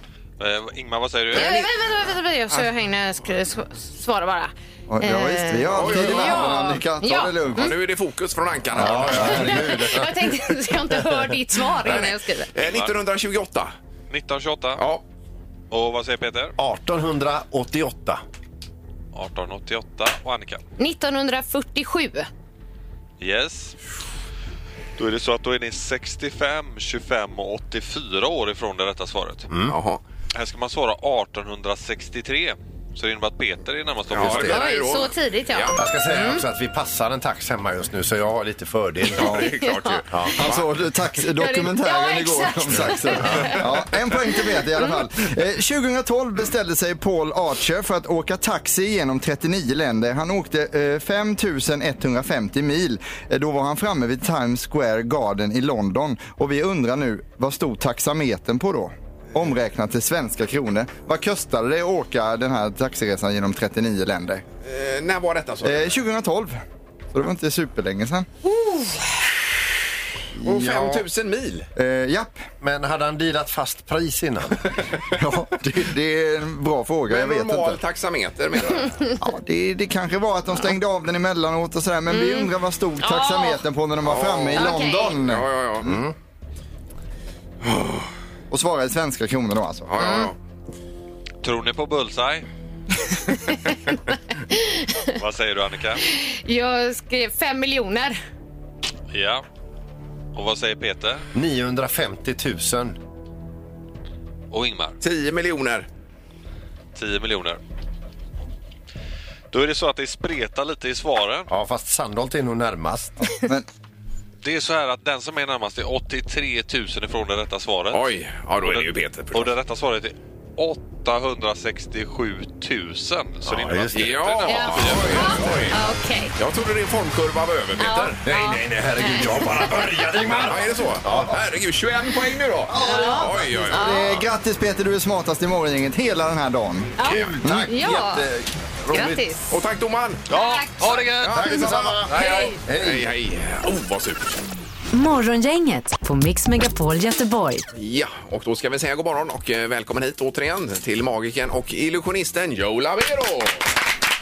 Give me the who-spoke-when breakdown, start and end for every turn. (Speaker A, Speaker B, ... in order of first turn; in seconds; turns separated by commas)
Speaker A: 0.4-1.6, Speaker B: 1.3-7.7, Speaker C: 1.3-1.7, Speaker D: 4.9-7.7, Speaker C: 5.7-6.7, Speaker C: 7.5-9.7, Speaker E: 8.7-10.1, Speaker D: 8.7-9.9, Speaker B: 9.2-12.5, Speaker C: 12.5-13.7, Speaker A: 12.6-12.9, Speaker A: 14.1-14.8, Speaker C: 14.8-15.0, Speaker A: 15.7-16.6, Speaker E: 16.6-18.2, Speaker A: 19.1-20.6, Speaker B: 20.8-22.3, Speaker A: 23.2-23.8, Speaker A: 25.0-29.5, Speaker E: 29.5-29.8, Speaker C: 29.7-30.0, Speaker A: 30.3-34.5, Speaker C: 34.1-35.8, Speaker E: 34.1-34.6, Speaker B: 34.5-36.4, Speaker E: 35.7-39.5, Speaker C: 39.1-40.7, Speaker D: 39.2-39.5, Speaker B: 39.4-40.0, Speaker E: 40.1-40.4, Speaker D: 40.4-64.4, Speaker B: 41.4-43.6, Speaker E: 43.2-43.6, Speaker C: 64.6-66.0, Speaker D: 65.6-66.6, Speaker D: 67.1-68.3, Speaker B: 68.5-69.0, Speaker D: 70.4-71.0, Speaker C: 70.4-71.7, Speaker D: 71.8-72.5, Speaker E: 72.6-74.7, Speaker D: 75.1-77.8, Speaker C: 77.1-79.1, Speaker D: 79.2-86.0, Speaker B: 82.1-83.6, Speaker C: 84.0-85.9, Speaker B: 84.5-85.2, Speaker E: 85.8-86.1, Speaker C: 87.6-88.1, Speaker D: 88.5-89.9, Speaker C: 89.9-90.3, Speaker B: 90.0-90.3, Speaker A: 91.4-92.5, Speaker B: 94.5-95.0, Speaker A: 95.2-96.0, Speaker B: 96.0-98.2, Speaker A: 99.1-99.4, Speaker A: 100.3-101.2, Speaker E: 101.3-103.0, Speaker A: 104.5-105.0, Speaker C: 105.0-105.9, Speaker A: 106.9-107.6, Speaker A: 109.5-111.5, Speaker E: 111.5-113.2, Speaker D: 113.2-113.7, Speaker A: 114.4-125.7, Speaker C: 117.9-119.5, Speaker E: 123.4-124.1, Speaker C: 123.9-125.8, Speaker B: 124.5-126.3, Speaker E: 124.8-125.5, Speaker C: 126.3-128.2, Speaker B: 127.8-129.9, Speaker E: 128.2-131.4, Speaker C: 130.2-134.2, Speaker D: 132.7-139.2, Speaker B: 132.7-134.1, Speaker B: 137.0-138.3, Speaker E: 137.1-138.0, Speaker B: 138.9-139.5, Speaker C: 139.5-140.3, Speaker A: 140.3-141.7, Speaker B: 140.3-141.1, Speaker C: 141.2-144.4, Speaker E: 141.3-143.1, Speaker B: 142.1-142.5, Speaker F: 144.9-147.6, Speaker C: 147.7-153.6